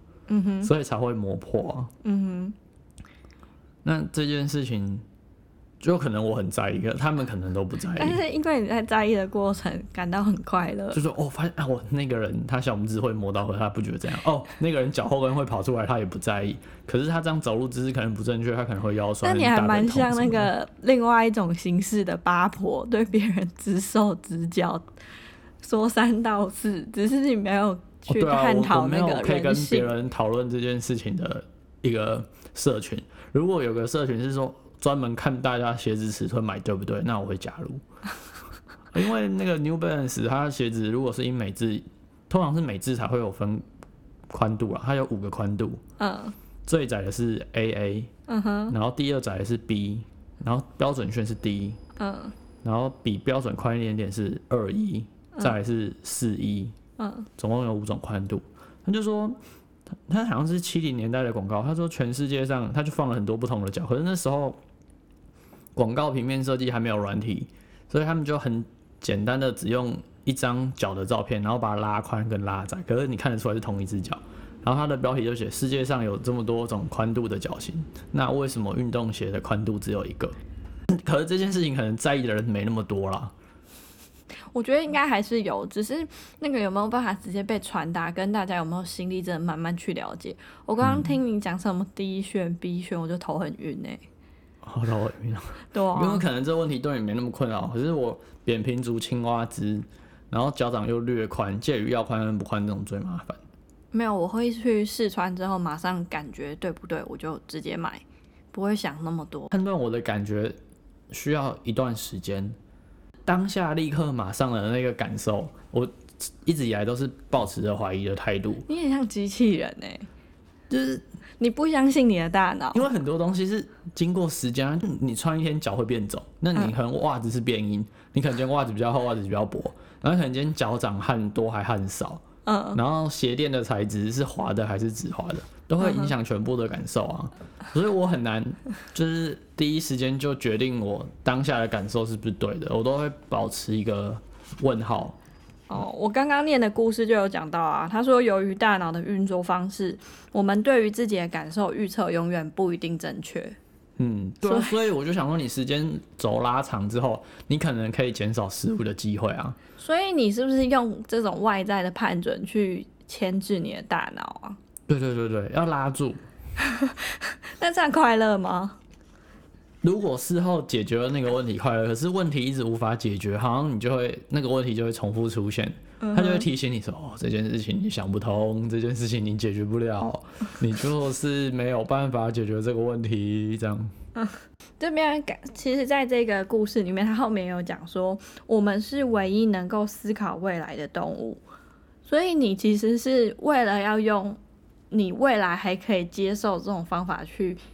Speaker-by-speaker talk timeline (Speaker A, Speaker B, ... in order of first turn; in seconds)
Speaker A: 0.3-0.7, 2.0-2.5, 8.0-11.0, 19.2-24.8, 25.6-29.9, 46.0-46.3, 48.3-48.7, 52.0-52.3, 57.0-57.3, 84.5-94.0, 95.7-96.2, 103.9-109.5, 118.7-120.1, 121.4-122.9, 132.4-132.8, 135.8-136.1, 145.7-153.6, 154.4-154.8, 159.8-164.6, 166.6-168.8, 176.0-176.5, 184.2-191.4, 192.0-194.4, 194.9-197.6
Speaker B: 0.6-1.9, 3.8-5.0, 5.8-8.2, 10.9-20.5, 28.1-37.8, 38.9-43.6, 44.3-45.8, 46.6-48.1, 48.7-51.8, 52.6-56.7, 57.4-59.4, 60.0-64.6, 65.7-80.3, 80.9-83.3, 90.8-91.2, 94.6-103.4, 109.5-110.5, 111.1-112.5, 113.2-118.6, 120.7-121.0, 122.7-145.2, 154.0-159.6, 164.9-166.2, 169.8-183.9